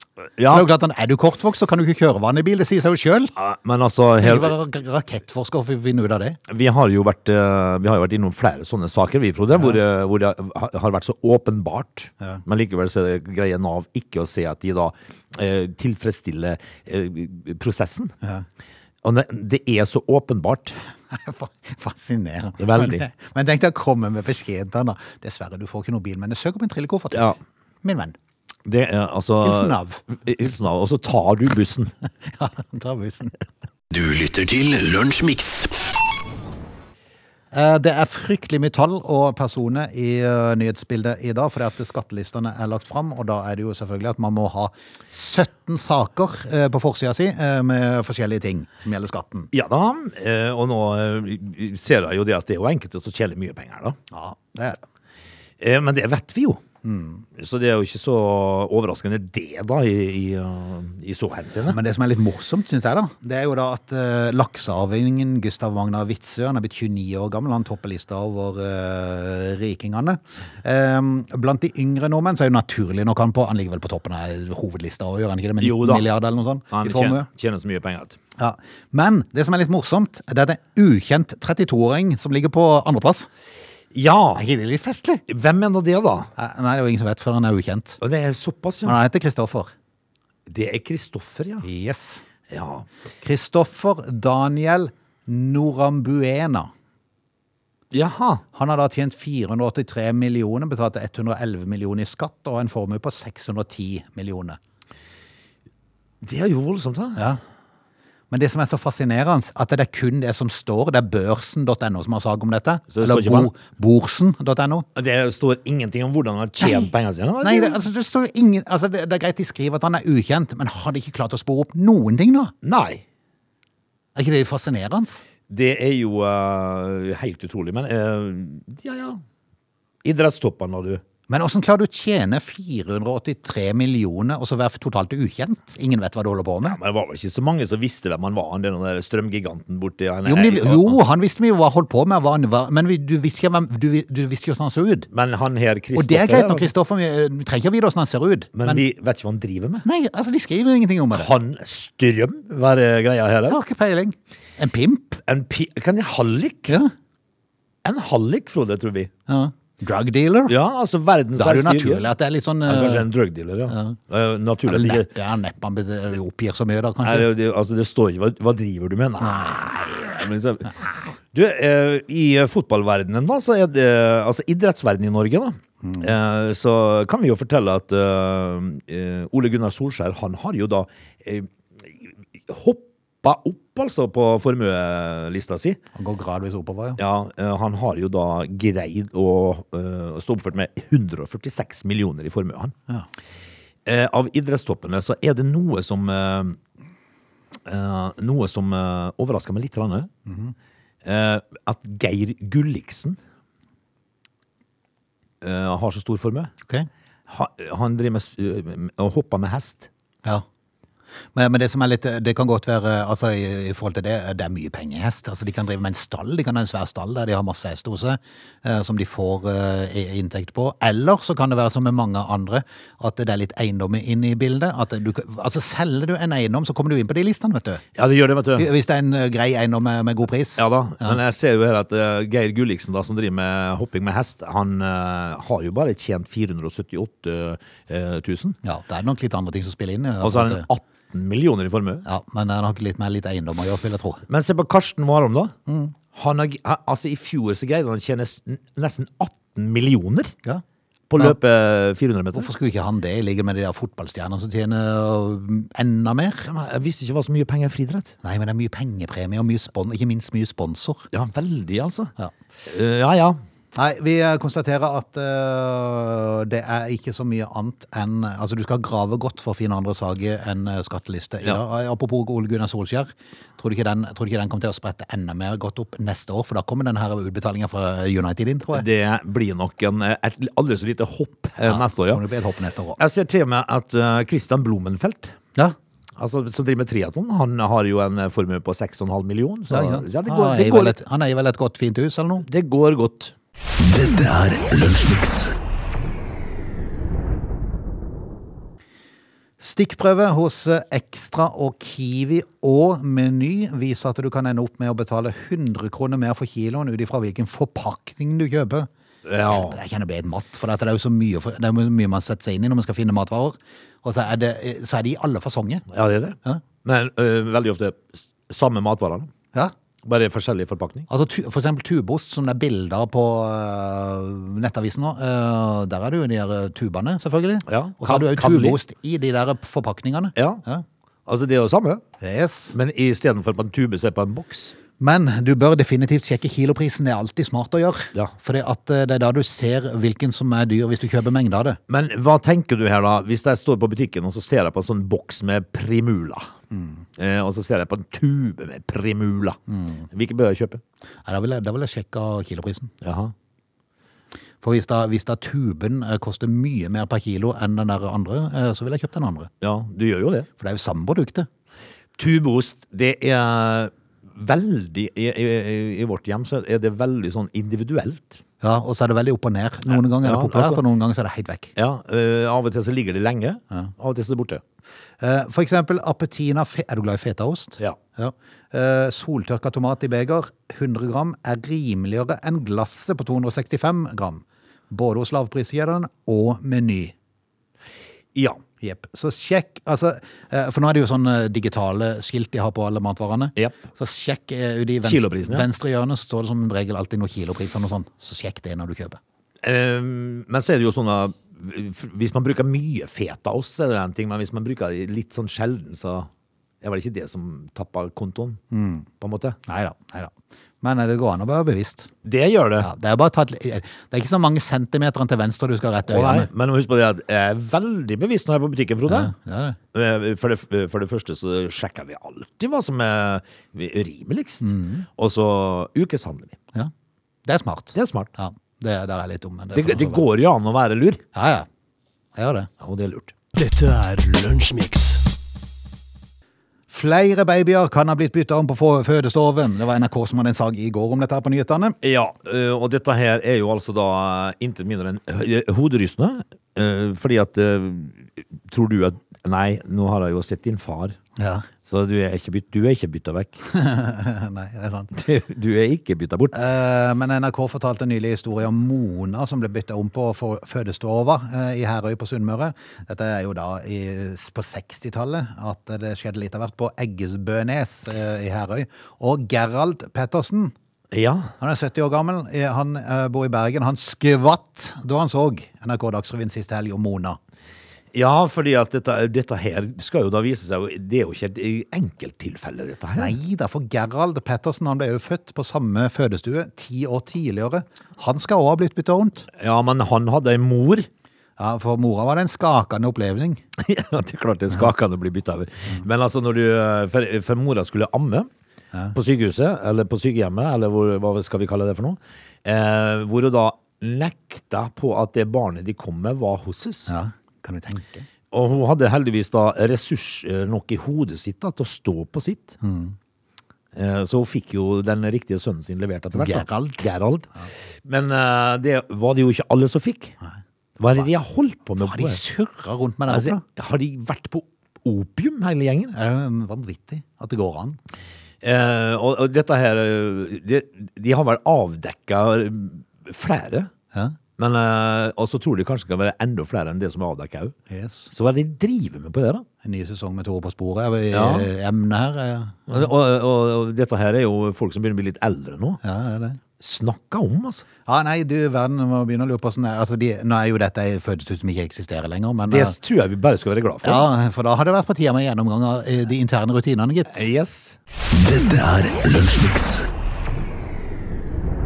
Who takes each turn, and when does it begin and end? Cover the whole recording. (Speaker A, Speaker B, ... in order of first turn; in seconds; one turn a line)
Speaker A: 0.4-0.7
Speaker B: 0.4-3.3
Speaker A: 3.4-4.5
Speaker B: 4.2-6.4
Speaker A: 6.5-18.1
Speaker A: 19.0-20.8
Speaker B: 21.1-28.1
Speaker A: 22.6-23.0
Speaker A: 27.1-27.4
Speaker A: 28.6-31.9
Speaker B: 29.4-30.0
Speaker B: 32.3-33.3
Speaker C: 33.9-35.8
Speaker B: 37.5-49.5
Speaker A: 49.5-54.0
Speaker B: 54.1-54.8
Speaker A: 55.6-56.6
Speaker B: 56.8-57.2
Speaker A: 57.4-61.8
Speaker B: 61.6-77.2
Speaker A: 75.6-76.1
Speaker A: 76.7-78.2
Speaker B: 78.4-83.3
Speaker A: 83.9-84.5
Speaker B: 84.3-85.2
Speaker A: 85.3-86.3
Speaker B: 86.3-88.0
Speaker A: 88.0-89.0
Speaker B: 88.8-89.7
Speaker A: 90.5-91.6
Speaker B: 91.6-92.2
Speaker A: 92.5-92.9
Speaker B: 93.2-96.7
Speaker A: 97.9-98.4
Speaker B: 98.5-104.6
Speaker A: 106.2-107.2
Speaker B: 108.3-114.9
Speaker A: 112.9-113.5
Speaker A: 114.9-117.8
Speaker B: 116.6-122.5
Speaker A: 122.6-123.0
Speaker B: 124.1-125.2
Speaker A: 125.5-129.2
Speaker A: 130.0-131.0
Speaker B: 131.3-136.8
Speaker A: 136.6-141.0
Speaker B: 140.2-145.1
Speaker A: 145.1-146.7
Speaker B: 145.9-148.8
Speaker A: 148.5-149.8
Speaker B: 149.8-151.3
Speaker A: 151.1-153.6
Speaker B: 153.5-155.2
Speaker A: 155.2-156.8
Speaker A: 157.8-159.1
Speaker B: 159.3-160.6
Speaker A: 160.5-162.1
Speaker B: 161.3-163.1
Speaker A: 162.7-165.1
Speaker B: 163.7-164.0
Speaker B: 164.6-167.3
Speaker A: 167.0-185.8
Speaker B: 169.2-169.6
Speaker B: 175.8-176.1
Speaker B: 185.9-187.0
Speaker A: 187.0-192.7
Speaker A: 193.8-196.6
Speaker A: 197.6-200.1
Speaker B: 200.3-200.5
Speaker A: 201.0-203.2
Speaker A: 205.4-206.5
Speaker A: 207.3-209.9
Speaker B: 211.3-227.8
Speaker A: 227.9-228.7
Speaker B: 228.6-231.2
Speaker A: 230.6-238.6
Speaker B: 238.6-240.6
Speaker A: 240.2-242.0
Speaker B: 242.0-244.2
Speaker A: 244.3-245.5
Speaker B: 245.7-245.9
Speaker A: 246.1-250.3
Speaker A: 251.1-252.5
Speaker B: 252.3-256.5
Speaker A: 256.4-258.1
Speaker B: 258.2-261.1
Speaker A: 261.1-262.1
Speaker A: 262.6-263.4
Speaker B: 263.7-278.9
Speaker A: 278.7-282.2
Speaker B: 281.6-283.0
Speaker A: 283.0-285.3
Speaker A: 286.2-291.0
Speaker B: 289.7-292.4
Speaker A: 292.4-293.3
Speaker C: 293.8-295.5
Speaker B: 299.6-308.9
Speaker A: 309.2-309.8
Speaker B: 309.4-315.8
Speaker A: 315.9-319.3
Speaker A: 320.0-321.1
Speaker B: 321.1-330.8
Speaker A: 327.6-328.8
Speaker A: 330.4-330.6
Speaker A: 331.2-332.0
Speaker B: 332.2-332.8
Speaker A: 332.7-334.8
Speaker B: 335.0-341.8
Speaker A: 341.9-346.5
Speaker B: 346.7-347.0
Speaker A: 347.2-349.6
Speaker B: 349.7-350.0
Speaker A: 350.1-350.8
Speaker B: 351.2-352.9
Speaker A: 353.0-353.3
Speaker B: 354.6-359.5
Speaker A: 359.6-360.5
Speaker B: 360.6-361.5
Speaker A: 362.2-368.4
Speaker B: 368.6-371.7
Speaker A: 369.9-370.8
Speaker A: 371.8-374.6
Speaker B: 375.2-387.1
Speaker A: 388.3-388.6
Speaker B: 388.8-399.2
Speaker A: 393.6-393.8
Speaker A: 395.0-395.7
Speaker A: 399.6-406.3
Speaker A: 406.8-408.6
Speaker B: 408.7-409.1
Speaker A: 409.2-409.6
Speaker B: 409.7-412.1
Speaker A: 412.2-412.9
Speaker B: 412.8-416.5
Speaker A: 416.1-419.3
Speaker B: 419.1-419.8
Speaker A: 419.9-426.6
Speaker B: 424.6-425.1
Speaker B: 427.4-430.2
Speaker A: 427.9-428.3
Speaker A: 429.7-431.2
Speaker B: 431.3-431.7
Speaker B: 432.3-432.7
Speaker A: 432.8-433.4
Speaker C: 433.5-435.2
Speaker B: 436.9-442.0
Speaker A: 442.0-451.2
Speaker B: 451.4-451.7
Speaker A: 451.8-453.6
Speaker B: 453.7-455.1
Speaker A: 455.1-456.5
Speaker B: 456.5-470.7
Speaker A: 471.1-471.5
Speaker B: 471.6-477.4
Speaker A: 478.1-483.3
Speaker B: 483.1-489.5
Speaker A: 489.6-491.1
Speaker B: 491.6-493.6
Speaker A: 493.8-498.5
Speaker A: 499.1-507.1
Speaker B: 507.1-508.3
Speaker A: 508.5-512.8
Speaker B: 512.8-513.1
Speaker A: 513.9-517.5
Speaker B: 516.3-517.0
Speaker A: 518.0-520.4
Speaker A: 521.0-522.4
Speaker B: 522.0-523.6
Speaker A: 523.3-526.1
Speaker B: 526.1-528.0
Speaker A: 528.6-533.9
Speaker A: 534.6-537.8
Speaker B: 537.9-538.3
Speaker A: 538.3-539.6
Speaker B: 539.8-543.1
Speaker A: 541.3-541.7
Speaker A: 542.9-546.0
Speaker B: 546.0-546.6
Speaker A: 546.8-547.8
Speaker B: 548.0-553.0
Speaker A: 552.7-554.3
Speaker B: 554.0-557.5
Speaker A: 557.3-558.0
Speaker C: 558.3-560.1